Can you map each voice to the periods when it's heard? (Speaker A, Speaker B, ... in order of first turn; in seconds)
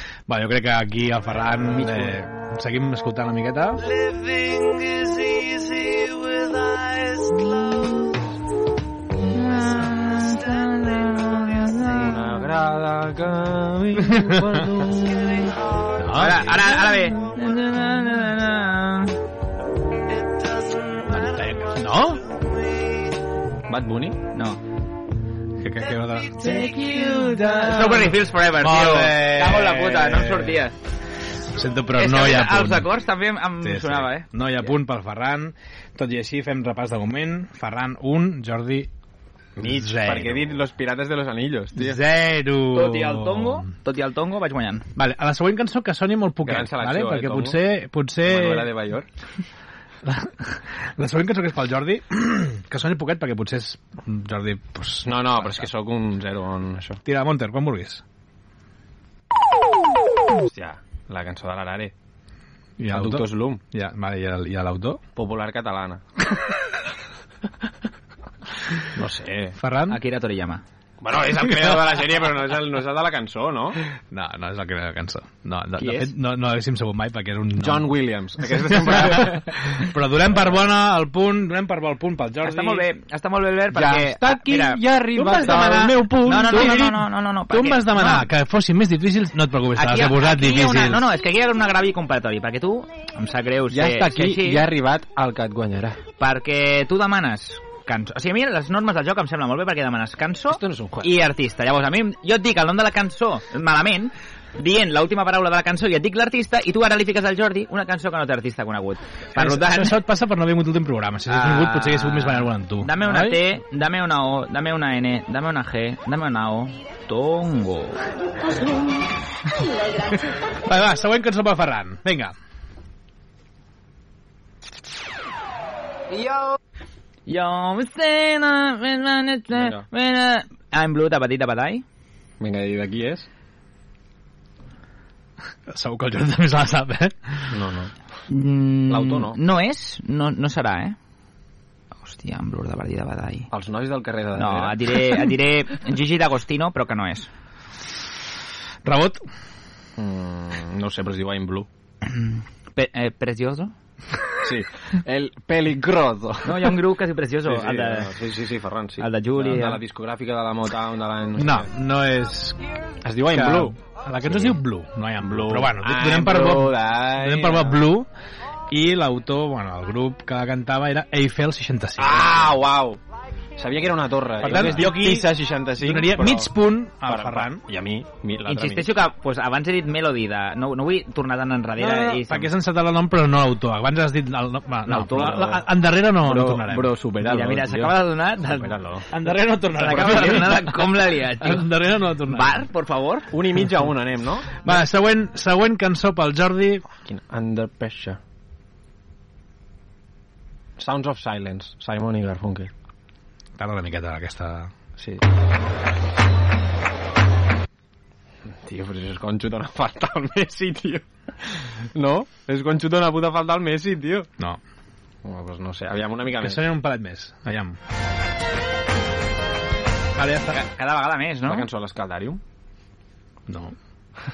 Speaker A: 0.3-3.8, 14.1-14.5, 16.0-16.5, 21.1-22.2, 25.6-30.6, 31.6-32.9, 33.6-38.9, 39.6-40.5, 41.8-43.7, 45.0-48.7, 50.0-55.7, 57.0-58.0, 62.8-65.0, 69.6-70.0, 71.5-71.8, 74.1-77.9, 78.6-82.8, 85.1-91.0, 109.3-113.5, 120.6-122.3, 135.7-137.5, 148.8-149.2, 161.4-162.6, 163.3-168.1, 168.7-172.6, 174.4-177.6, 181.8-186.9, 189.1-192.6, 194.6-196.8, 203.6-204.7, 216.4-217.8, 220.1-220.6, 223.5-223.7
Speaker B: 1.7-2.1, 11.8-15.5, 23.7-24.2, 39.6-42.0, 46.4-47.6, 48.2-49.1, 55.0-57.0, 60.4-61.9, 62.9-63.6, 65.2-66.0, 68.9-69.6, 71.0-73.8, 77.6-79.5, 83.7-86.9, 93.7-96.0, 100.5-101.1, 129.5-129.8, 132.4-133.3, 137.5-137.9, 138.9-139.4, 143.5-144.9, 150.0-151.7, 154.4-156.9, 157.4-161.7, 163.0-164.6, 165.2-167.8, 172.0-173.0, 173.6-179.0, 184.9-185.6, 186.2-189.0, 193.3-194.6, 197.0-198.2, 200.8-202.7, 205.0-205.2, 208.5-214.3, 215.2-216.6, 221.4-222.4
Speaker C: 9.3-12.3, 16.1-19.1, 24.3-24.6, 26.4-30.7, 31.9-34.3, 42.7-44.9, 69.9-70.6, 75.8-76.1, 82.4-88.3, 89.8-94.7, 96.2-110.0, 111.3-118.0, 127.3-131.8, 138.3-140.9, 142.0-143.5, 144.3-147.3, 152.0-153.7, 156.4-158.1, 159.0-159.8, 178.4-182.5, 184.9-185.5, 187.2-188.8, 189.7-193.3, 220.5-221.7